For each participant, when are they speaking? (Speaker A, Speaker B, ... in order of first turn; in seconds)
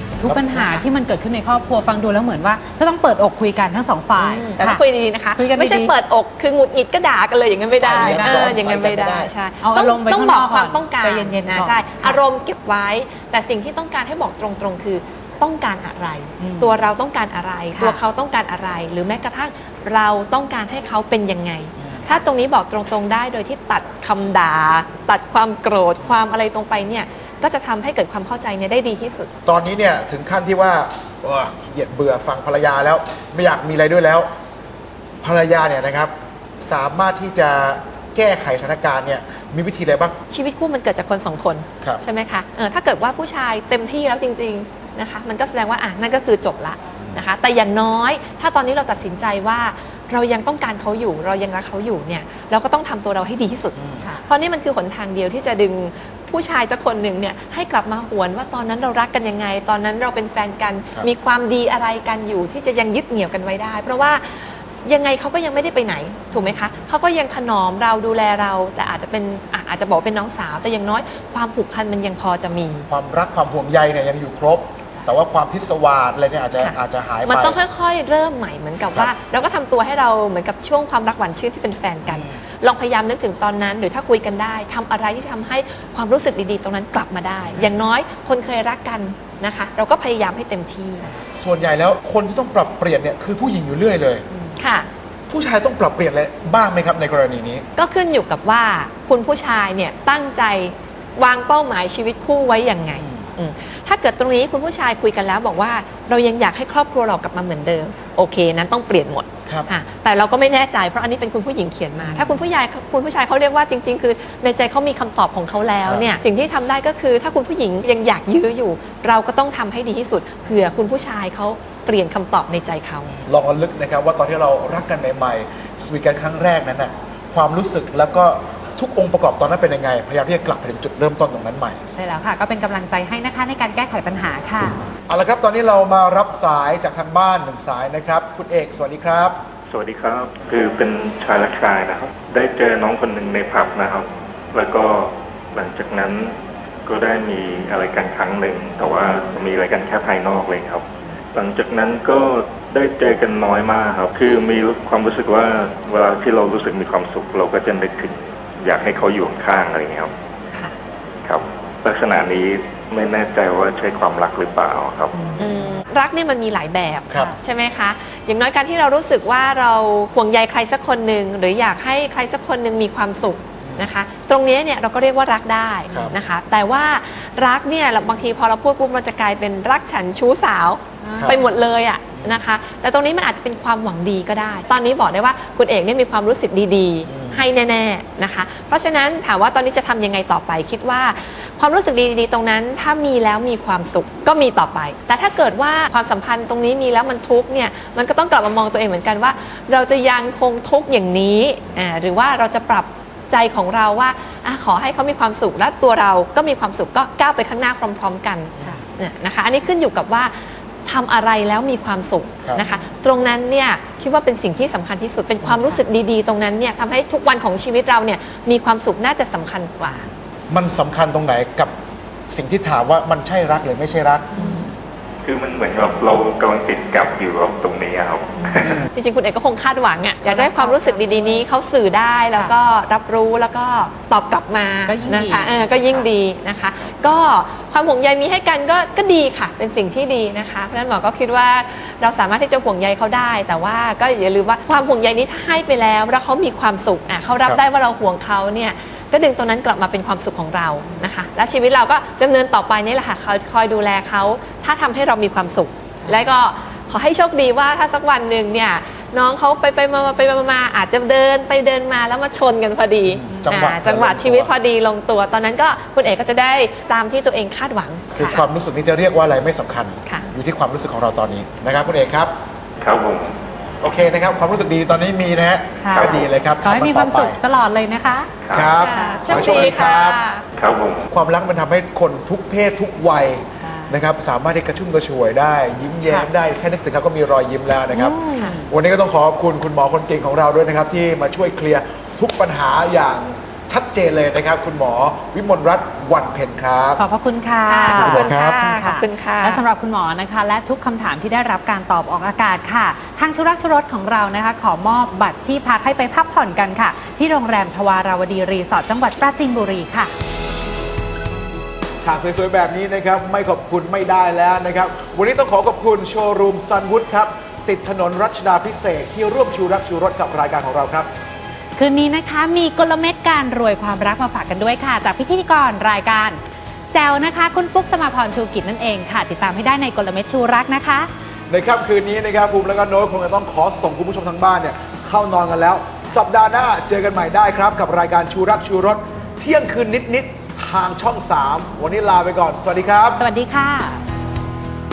Speaker A: 0.2-4.8, 5.3-5.9, 7.8-8.6, 9.6-12.2, 16.4-16.8, 17.7-18.0, 54.0-54.2, 131.9-134.8, 181.0-181.4, 212.6-212.8, 224.4-224.6, 230.2-231.4, 234.9-236.0, 256.0-256.3, 268.1-268.4, 275.8-279.6, 283.6-284.0, 287.9-288.7, 297.0-310.1, 321.8-326.4, 326.9-331.1, 343.2-344.0
Speaker B: 0.5-0.8, 4.2-29.3, 40.3-72.9, 76.6-91.0, 94.3-94.9, 97.8-123.2, 165.4-220.1, 224.3-224.7, 228.9-268.1, 270.1-270.3, 278.7-280.4, 288.2-288.5, 297.6-299.6
Speaker C: 7.8-9.3, 29.4-34.3, 35.2-40.2, 53.8-54.0, 72.9-77.6, 82.0-82.4, 87.4-87.8, 91.3-94.2, 95.3-97.6, 102.9-103.3, 112.0-112.4, 115.8-116.1, 123.2-131.8, 135.1-139.4, 167.1-167.3, 173.6-173.9, 175.9-176.2, 181.1-181.4, 182.2-182.4, 187.1-187.4, 220.5-221.7, 222.3-224.3, 263.1-264.5, 268.1-272.3, 273.8-277.4, 278.5-280.2, 281.1-297.0, 297.9-298.6, 312.0-321.1, 331.5-343.2
Speaker D: 139.7-146.3, 146.8-160.1, 161.2-165.1, 225.2-228.8, 272.8-273.4, 275.9-276.2, 278.4-278.7, 279.3-279.7, 280.6-281.1